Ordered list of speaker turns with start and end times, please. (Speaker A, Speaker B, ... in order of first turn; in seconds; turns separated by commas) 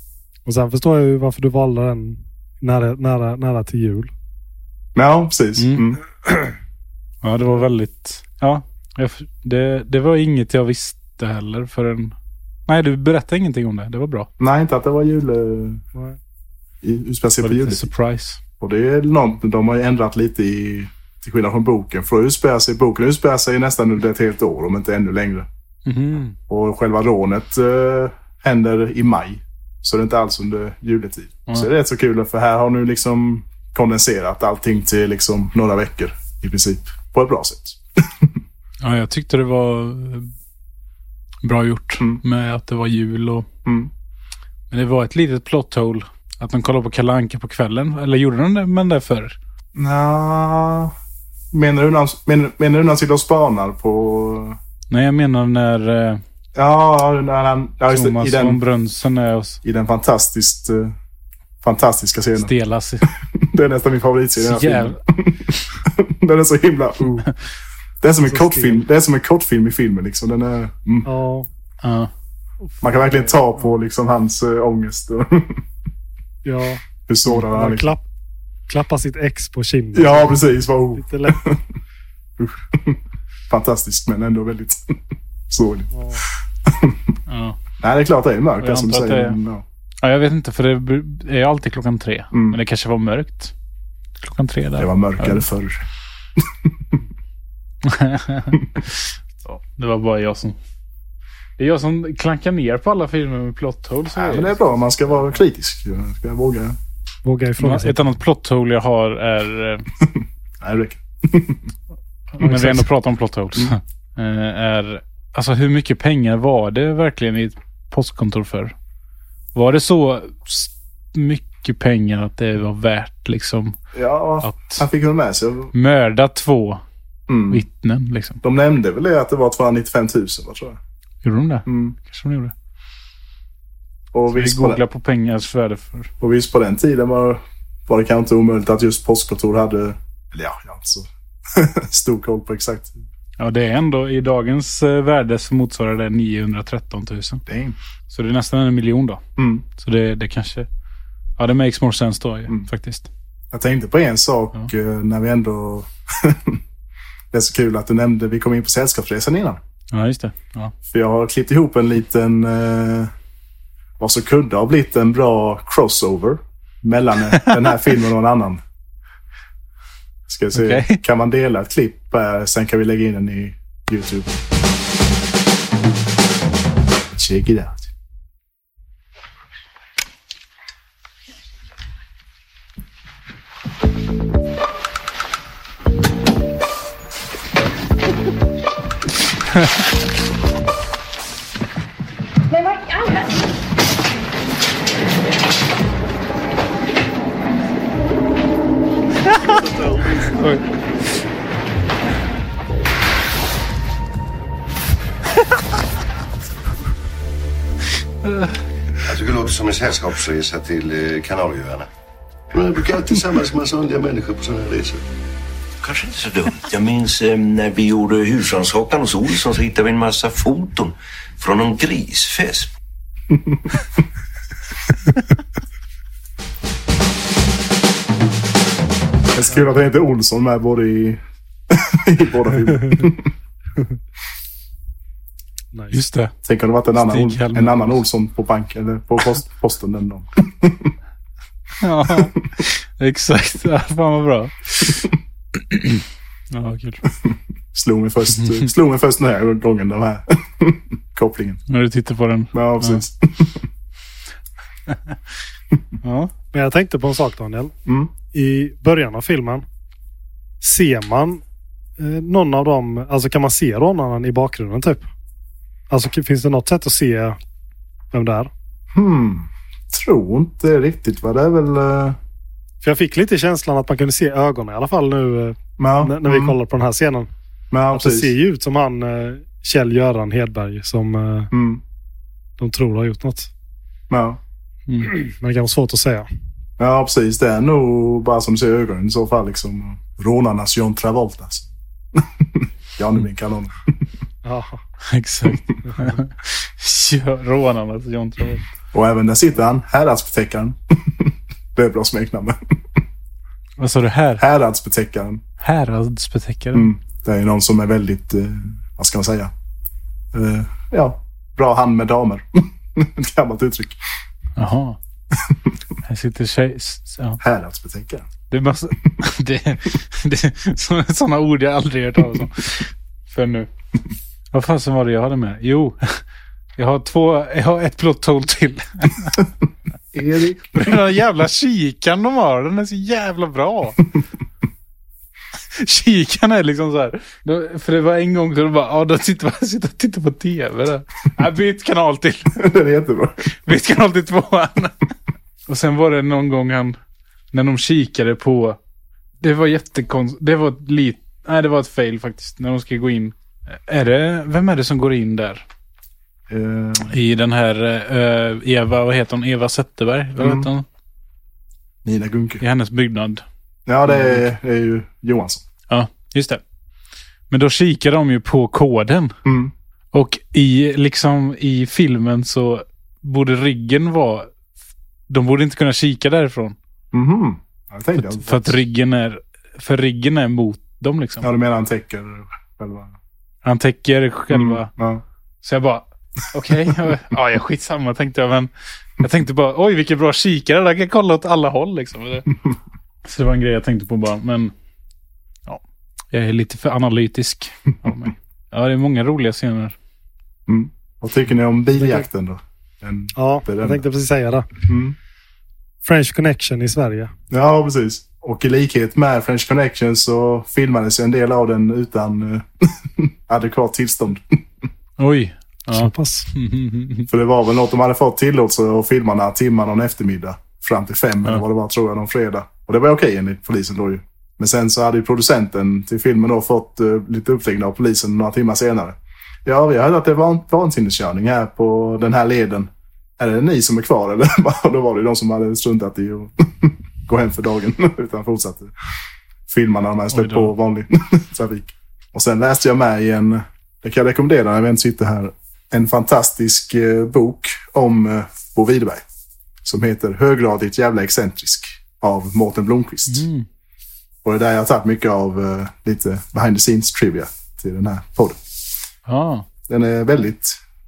Speaker A: 0.5-4.1, Speaker B: 5.0-6.0, Speaker C: 5.6-6.0, Speaker C: 7.2-12.2, Speaker C: 12.7-14.3, Speaker B: 14.4-15.8, Speaker B: 16.8-17.9, Speaker C: 17.4-18.4, Speaker B: 18.6-25.5, Speaker C: 25.9-26.4, Speaker B: 26.5-38.3, Speaker C: 38.8-40.3, Speaker C: 41.4-43.5, Speaker B: 43.6-43.9, Speaker C: 44.7-49.4, Speaker B: 49.8-50.9, Speaker B: 51.5-54.6, Speaker C: 54.9-56.2, Speaker B: 56.6-58.6, Speaker C: 57.9-59.6, Speaker B: 59.6-60.9, Speaker B: 61.6-62.5, Speaker C: 62.4-63.1, Speaker B: 63.2-67.3, Speaker C: 64.4-65.0, Speaker B: 68.0-71.1, Speaker A: 68.3-68.8, Speaker A: 71.0-71.5, Speaker C: 71.8-72.1, Speaker B: 72.8-75.6, Speaker A: 76.5-78.0, Speaker B: 77.1-77.9, Speaker A: 78.7-80.4, Speaker B: 79.9-81.6, Speaker A: 80.9-81.4, Speaker B: 82.4-85.0, Speaker B: 85.5-87.2, Speaker A: 85.9-86.2, Speaker C: 87.3-87.6, Speaker B: 87.8-89.6, Speaker C: 88.6-89.4, Speaker C: 90.0-93.5, Speaker B: 92.3-92.6, Speaker C: 94.2-95.5, Speaker B: 94.8-97.0, Speaker C: 97.8-100.6, Speaker C: 101.6-104.6, Speaker B: 104.1-106.8, Speaker A: 107.2-108.0, Speaker C: 107.6-109.8, Speaker B: 110.0-111.7, Speaker C: 112.4-118.7, Speaker A: 112.4-112.9, Speaker C: 119.5-123.8, Speaker B: 124.0-125.7, Speaker C: 124.4-124.8, Speaker C: 125.7-126.8, Speaker B: 127.3-127.6, Speaker C: 127.5-128.4, Speaker B: 128.4-130.8, Speaker C: 131.2-132.5, Speaker B: 131.7-131.9, Speaker B: 134.1-134.8, Speaker C: 134.3-136.1, Speaker B: 136.2-143.0, Speaker C: 143.4-147.4, Speaker B: 147.5-147.8, Speaker C: 148.1-149.2, Speaker B: 149.4-149.7, Speaker C: 149.8-150.7, Speaker C: 151.4-153.1, Speaker B: 153.5-156.6, Speaker B: 157.3-159.6, Speaker C: 159.9-160.7, Speaker B: 160.9-163.1, Speaker B: 164.0-168.6, Speaker B: 170.3-174.3, Speaker C: 170.5-171.0, Speaker B: 177.1-177.9, Speaker C: 200.3-200.6, Speaker C: 208.2-208.6, Speaker D: 209.1-211.9, Speaker D: 212.5-215.0, Speaker E: 215.8-222.7, Speaker B: 223.3-223.7, Speaker B: 229.3-233.3, Speaker A: 235.7-236.0, Speaker C: 235.9-236.3, Speaker B: 236.4-240.9, Speaker C: 236.9-238.0, Speaker C: 241.8-247.1, Speaker B: 247.2-251.6, Speaker C: 251.7-253.0, Speaker B: 252.5-253.7, Speaker C: 254.9-255.2, Speaker C: 256.0-256.3, Speaker A: 256.5-257.7, Speaker B: 257.9-258.1, Speaker A: 258.3-259.6, Speaker A: 260.6-261.4, Speaker A: 262.0-265.1, Speaker A: 265.9-267.4, Speaker A: 268.1-268.5, Speaker B: 268.9-272.2, Speaker A: 272.8-277.3, Speaker B: 275.8-276.6, Speaker B: 277.7-278.3, Speaker A: 277.9-281.5, Speaker B: 281.5-281.8, Speaker A: 282.6-283.5, Speaker B: 284.1-284.4, Speaker C: 284.9-285.1, Speaker A: 285.1-286.3, Speaker B: 286.8-293.9, Speaker A: 294.4-294.8, Speaker C: 295.1-298.7, Speaker B: 298.9-303.0, Speaker C: 303.8-304.4, Speaker B: 304.4-305.4, Speaker C: 305.6-306.9, Speaker B: 306.7-309.5, Speaker B: 310.3-314.0, Speaker C: 314.6-315.0, Speaker B: 315.3-315.6, Speaker C: 316.0-317.4, Speaker B: 317.4-318.3, Speaker C: 318.5-323.7, Speaker C: 324.5-326.2, Speaker C: 326.8-329.4, Speaker B: 330.1-330.8, Speaker C: 330.7-334.1, Speaker C: 335.7-342.6, Speaker B: 342.6-343.4, Speaker C: 343.6-345.1, Speaker C: 345.7-347.0, Speaker C: 347.5-348.8, Speaker C: 349.4-355.6, Speaker B: 356.5-357.2, Speaker C: 357.1-360.9, Speaker B: 360.4-360.7, Speaker B: 362.0-362.6, Speaker C: 362.6-363.4, Speaker B: 363.9-365.6, Speaker C: 364.1-364.4, Speaker C: 365.9-366.6, Speaker C: 367.5-369.4, Speaker B: 369.4-369.7, Speaker C: 370.1-374.5, Speaker C: 375.3-376.8, Speaker B: 377.1-378.8, Speaker C: 378.2-381.5, Speaker B: 381.4-383.1, Speaker C: 383.6-384.9, Speaker B: 384.5-385.2, Speaker C: 385.6-392.5, Speaker C: 393.2-394.7, Speaker C: 396.3-400.0, Speaker B: 400.7-404.0, Speaker A: 402.0-402.2, Speaker A: 403.4-404.9, Speaker B: 404.9-405.2, Speaker A: 406.0-407.3, Speaker B: 407.5-414.6, Speaker C: 415.2-417.3, Speaker A: 415.9-416.5, Speaker B: 417.3-438.9, Speaker B: 439.7-449.2, Speaker C: 440.3-440.7, Speaker B: 449.8-453.5, Speaker C: 453.3-453.7, Speaker B: 454.4-458.6, Speaker C: 459.3-459.7, Speaker B: 459.9-460.8